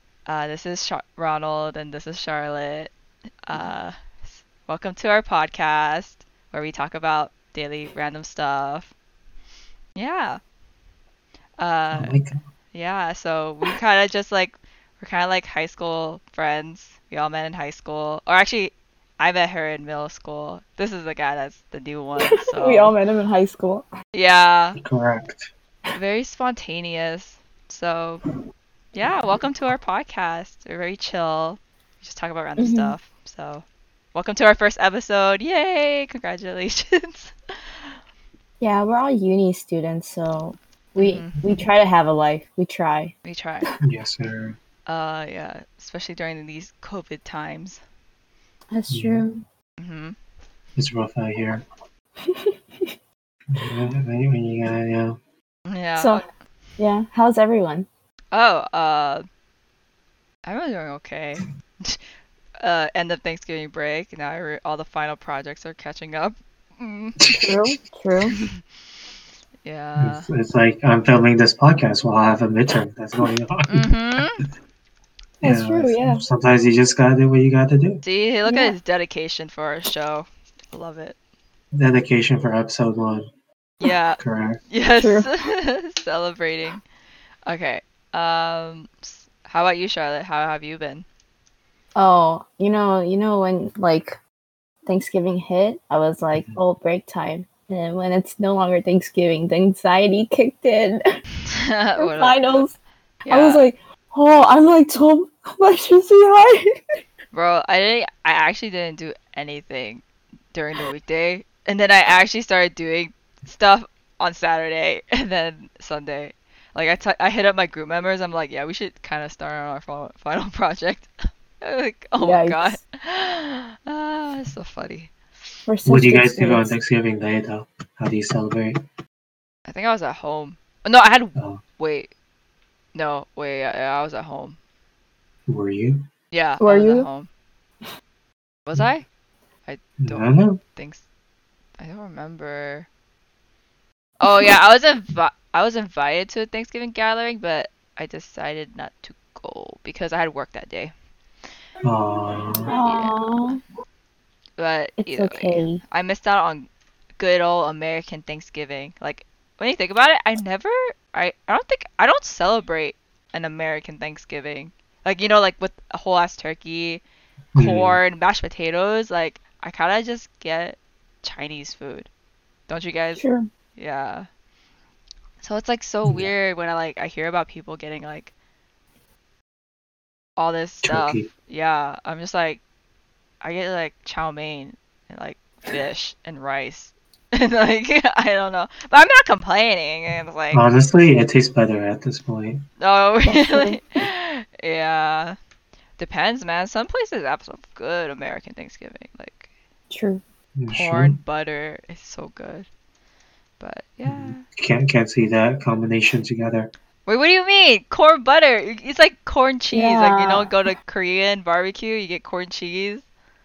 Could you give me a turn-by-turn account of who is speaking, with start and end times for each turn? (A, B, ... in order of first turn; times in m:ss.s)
0:00.3-0:02.9 A
0:03.4-0:08.9 A
0:10.0-0:10.4 A
0:11.6-0:12.2 A
0:11.9-0:12.4 B
0:12.7-0:23.0 A
0:22.2-0:23.9 C
0:24.1-0:24.8 A
0:24.8-0:25.5 B
0:25.9-0:28.2 A
0:29.0-0:38.0 A
0:32.6-0:32.9 C
0:38.6-0:43.2 C
0:41.0-0:41.6 A
0:43.2-0:43.7 A
0:43.8-0:44.6 B
0:44.9-0:47.8 A
0:48.7-0:49.4 C
0:48.9-0:49.2 B
0:49.8-0:50.2 A
0:50.8-0:51.6 B
0:52.2-0:52.5 C
0:53.5-0:55.2 B
0:55.7-0:56.2 A
0:56.0-0:56.2 C
0:56.8-0:57.9 C
0:58.3-0:59.2 A
1:00.5-1:02.0 A
1:02.6-1:07.2 A
1:07.2-1:07.7 B
1:07.3-1:08.4 C
1:09.6-1:10.3 A
1:10.0-1:13.9 B
1:13.7-1:14.4 A
1:15.4-1:16.2 C
1:15.4-1:18.0 B
1:18.0-1:21.2 A
1:18.5-1:18.7 C
1:21.7-1:23.3 B
1:23.8-1:24.2 A
1:24.2-1:24.6 B
1:24.7-1:26.8 A
1:25.0-1:25.3 C
1:27.5-1:31.1 A
1:32.0-1:34.2 C
1:34.9-1:41.0 C
1:41.5-1:42.6 A
1:42.0-1:42.7 C
1:43.3-1:43.7 A
1:43.3-1:46.7 C
1:47.3-2:01.1 A
2:01.6-2:05.1 A
2:02.2-2:02.8 C
2:05.7-2:06.7 C
2:05.8-2:08.8 B
2:09.7-2:12.1 A
2:11.4-2:11.6 B
2:13.0-2:14.6 A
2:15.5-2:16.0 B
2:16.3-2:17.3 A
2:16.6-2:17.1 C
2:18.7-2:19.1 A
2:19.7-2:21.0 A
2:20.0-2:20.6 B
2:21.8-2:22.9 A
2:24.2-2:30.9 A
2:24.2-2:24.5 C
2:31.8-2:32.7 B
2:32.7-2:33.6 C
2:32.9-2:33.2 A
2:34.6-2:47.0 A
2:35.0-2:35.8 C
2:47.6-2:48.0 B
2:47.6-2:52.1 A
2:52.7-2:53.2 A
2:53.2-2:53.5 C
2:53.8-2:54.3 A
2:55.4-2:58.3 A
2:56.0-2:56.3 B
3:00.4-3:02.6 A
3:00.8-3:01.3 B
3:03.4-3:10.7 A
3:10.5-3:12.6 B
3:12.8-3:15.4 A
3:13.3-3:13.8 C
3:16.0-3:19.5 A
3:19.9-3:20.2 C
3:20.6-3:21.2 B
3:20.7-3:22.7 A
3:23.6-3:24.4 A
3:24.1-3:26.7 B
3:27.1-3:33.0 A
3:29.7-3:30.5 C